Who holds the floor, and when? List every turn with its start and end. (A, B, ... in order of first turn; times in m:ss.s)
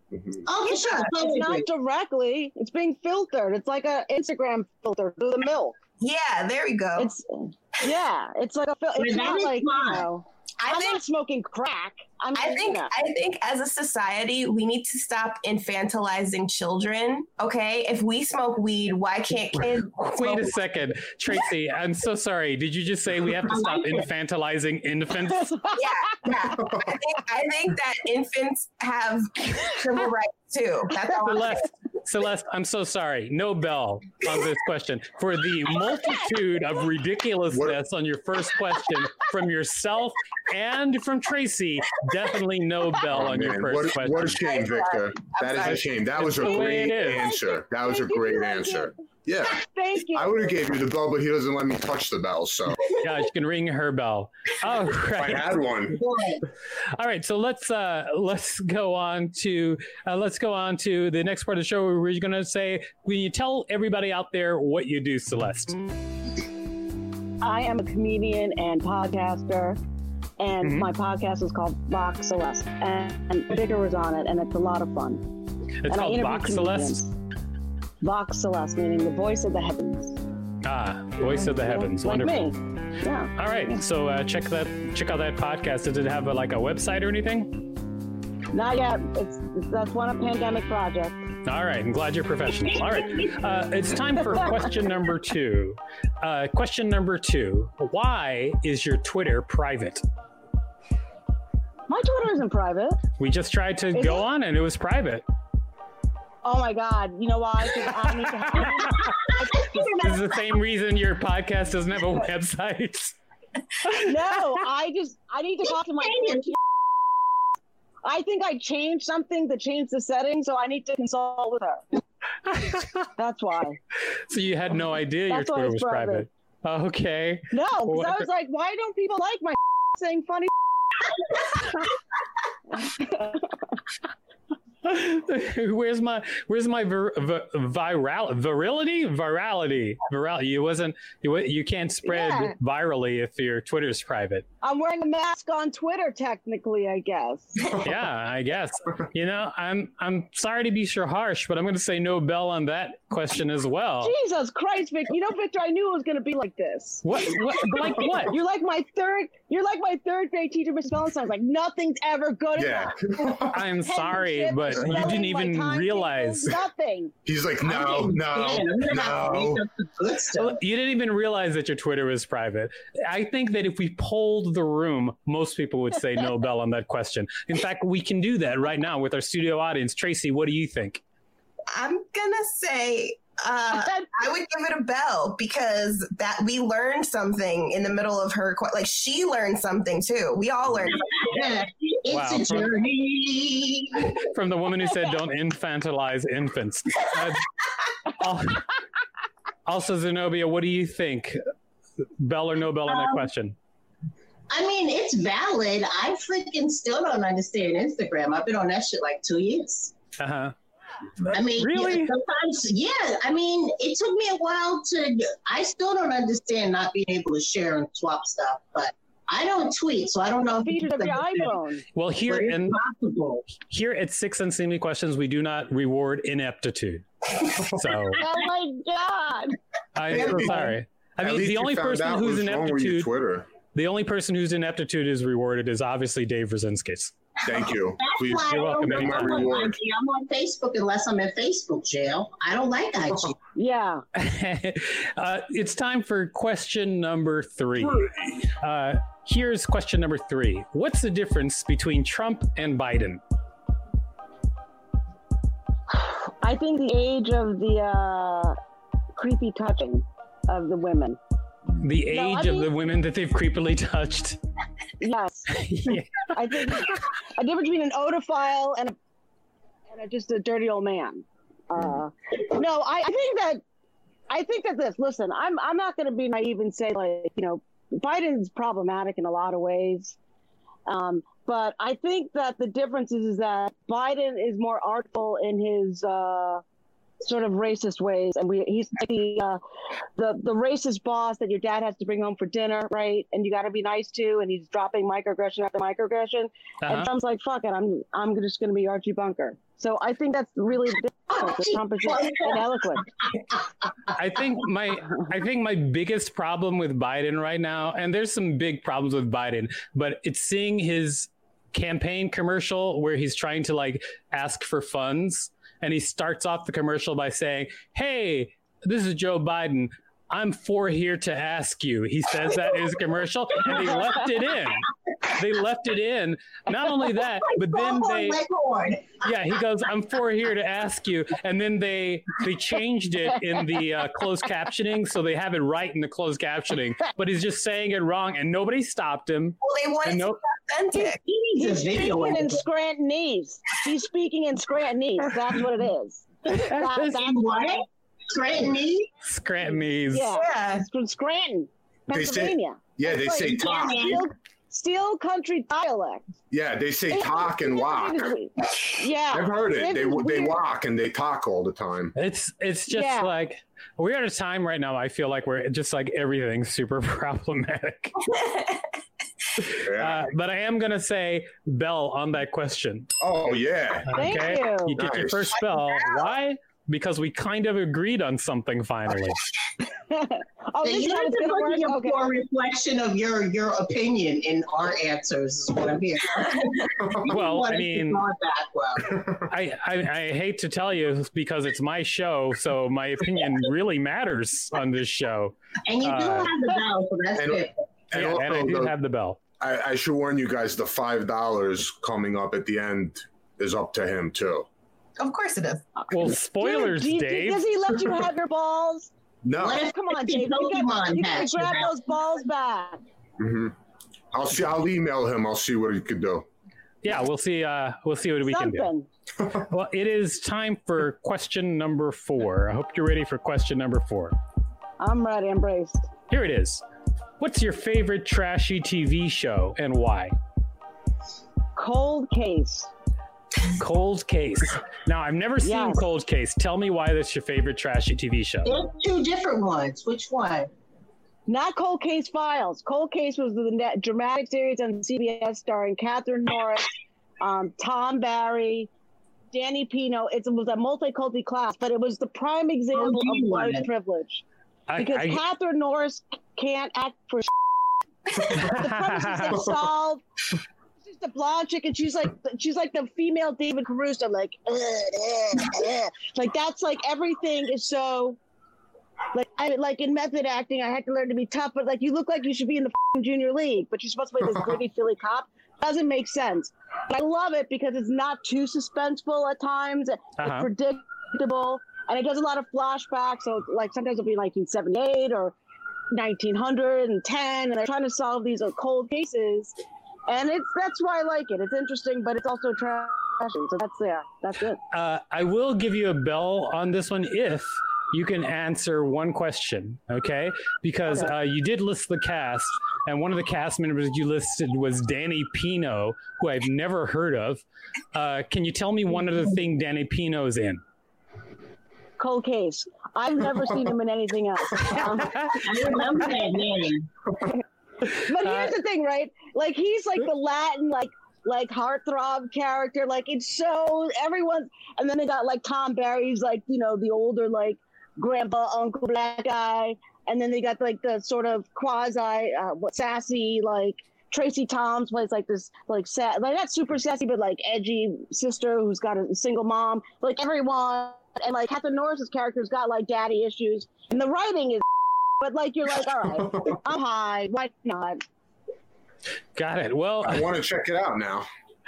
0:00.4-0:01.6 A
0:00.7-0:05.8 B
0:06.0-0:07.1 C
0:07.0-0:12.9 B
0:09.0-0:10.0 A
0:10.6-0:11.0 C
0:12.3-0:20.6 C
0:19.8-0:25.5 D
0:25.8-0:31.6 C
0:31.1-0:44.4 D
0:37.5-0:37.8 E
0:43.1-0:49.6 E
0:45.4-0:45.8 C
0:45.6-0:47.2 D
0:46.4-0:48.9 B
0:49.6-0:50.6 B
0:50.1-0:52.9 E
0:52.9-0:55.5 D
0:55.1-0:56.0 E
0:55.9-0:56.4 A
0:57.0-1:05.8 D
1:07.4-1:09.8 B
1:10.4-1:15.2 B
1:15.8-1:17.0 D
1:15.9-1:17.1 B
1:18.0-1:20.2 B
1:20.6-1:22.4 D
1:21.2-1:23.7 B
1:23.4-1:27.7 D
1:28.5-1:31.2 B
1:31.4-1:40.0 D
1:41.9-1:43.0 B
1:43.2-1:45.2 D
1:43.9-1:44.2 B
1:46.4-1:50.2 B
1:49.1-1:49.8 A
1:50.0-1:53.2 D
1:54.0-1:56.6 B
1:55.9-1:56.5 A
1:58.0-2:01.8 B
2:02.6-2:03.0 D
2:03.2-2:03.8 B
2:04.3-2:08.2 D
2:05.3-2:06.2 B
2:07.5-2:10.5 B
2:12.8-2:13.4 B
2:14.8-2:24.4 D
2:22.0-2:22.6 B
2:24.6-2:27.7 B
2:27.7-2:34.1 D
2:34.0-2:37.0 B
2:37.0-2:38.3 D
2:38.0-2:47.1 B
2:42.5-2:43.6 E
2:43.5-2:46.6 D
2:47.2-2:49.6 E
2:47.6-2:50.6 A
2:50.3-3:01.0 D
3:01.7-3:11.0 C
3:11.1-3:14.2 A
3:12.1-3:12.7 D
3:14.2-3:17.4 D
3:18.2-3:18.7 D
3:19.6-3:21.4 D
3:22.2-3:23.6 D
3:22.9-3:23.3 A
3:24.5-3:29.9 A
3:30.2-3:30.5 D
3:31.2-3:32.1 D
3:31.3-3:41.6 A
3:40.6-3:41.8 B
3:41.9-3:42.8 D
3:42.2-3:43.5 A
3:43.5-3:48.2 D
3:48.2-3:49.5 B
3:50.0-3:53.1 D
3:50.1-3:53.5 E
3:53.7-3:57.1 D
3:57.4-3:59.7 E
3:57.5-4:03.3 A
3:58.5-3:59.6 D
4:03.5-4:04.0 B
4:04.2-4:13.2 D
4:07.8-4:08.2 E
4:15.9-4:18.6 B
4:19.1-4:21.2 B
4:21.8-4:24.4 D
4:22.1-4:22.7 B
4:25.0-4:25.5 B
4:25.5-4:26.7 D
4:26.3-4:29.0 B
4:29.9-4:33.6 B
4:34.3-4:40.2 B
4:40.9-4:46.6 B
4:47.2-4:49.6 B
4:50.2-5:03.0 B
4:56.8-4:57.1 D
5:01.3-5:03.6 A
5:04.1-5:28.4 D
5:27.2-5:29.3 A
5:29.2-5:40.4 D
5:39.6-5:41.2 C
5:41.2-5:42.6 A
5:41.6-5:47.8 B
5:46.5-5:47.0 D
5:47.1-5:49.1 A
5:49.2-5:50.3 D
5:50.1-5:56.2 B
5:50.3-5:50.8 C
5:52.1-5:54.0 E
5:53.5-5:54.3 A
5:56.5-5:58.3 E
5:57.1-6:00.6 B
5:59.3-6:02.1 E
6:02.2-6:08.2 D
6:02.9-6:03.3 B
6:08.2-6:08.8 C
6:09.6-6:13.1 D
6:09.8-6:10.2 E
6:13.2-6:14.2 E
6:14.1-6:19.4 D
6:14.1-6:15.0 B
6:15.0-6:15.5 E
6:20.1-6:22.3 B
6:20.8-6:29.2 A
6:27.3-6:28.2 D
6:29.1-6:29.4 E
6:29.5-6:36.5 D
6:35.9-6:37.7 A
6:37.4-6:38.9 E
6:38.1-6:39.4 D
6:39.6-6:44.7 E
6:45.2-6:45.8 C
6:46.1-6:47.6 D
6:46.6-6:49.1 B
6:49.4-6:49.8 E
6:49.6-6:51.9 A
6:49.8-6:53.0 B
6:53.4-6:53.7 E
6:54.3-6:56.5 E
6:57.0-6:58.9 D
6:58.4-6:59.1 B
6:59.5-7:04.4 D
7:05.0-7:06.0 B
7:06.3-7:06.8 D
7:07.4-7:10.4 D
7:11.8-7:12.9 B
7:13.8-7:18.8 D
7:15.6-7:16.0 B
7:18.6-7:20.7 A
7:21.5-7:26.9 B
7:27.4-7:28.9 B
7:29.5-7:34.4 B
7:32.9-7:33.9 A
7:34.9-7:35.4 D
7:35.0-7:37.5 B
7:38.5-7:39.6 D
7:38.6-7:40.2 B
7:41.0-7:48.4 B
7:49.3-8:05.6 B
8:00.4-8:00.7 D
8:06.1-8:09.8 B
8:10.3-8:14.8 B
8:14.9-8:27.6 D
8:28.1-8:30.8 D
8:32.2-8:35.4 B
8:35.0-8:35.6 D
8:35.5-8:37.1 A
8:38.2-9:04.8 B
8:38.4-8:38.7 D
9:05.4-9:08.2 B
9:09.6-9:10.5 D
9:10.2-9:11.5 E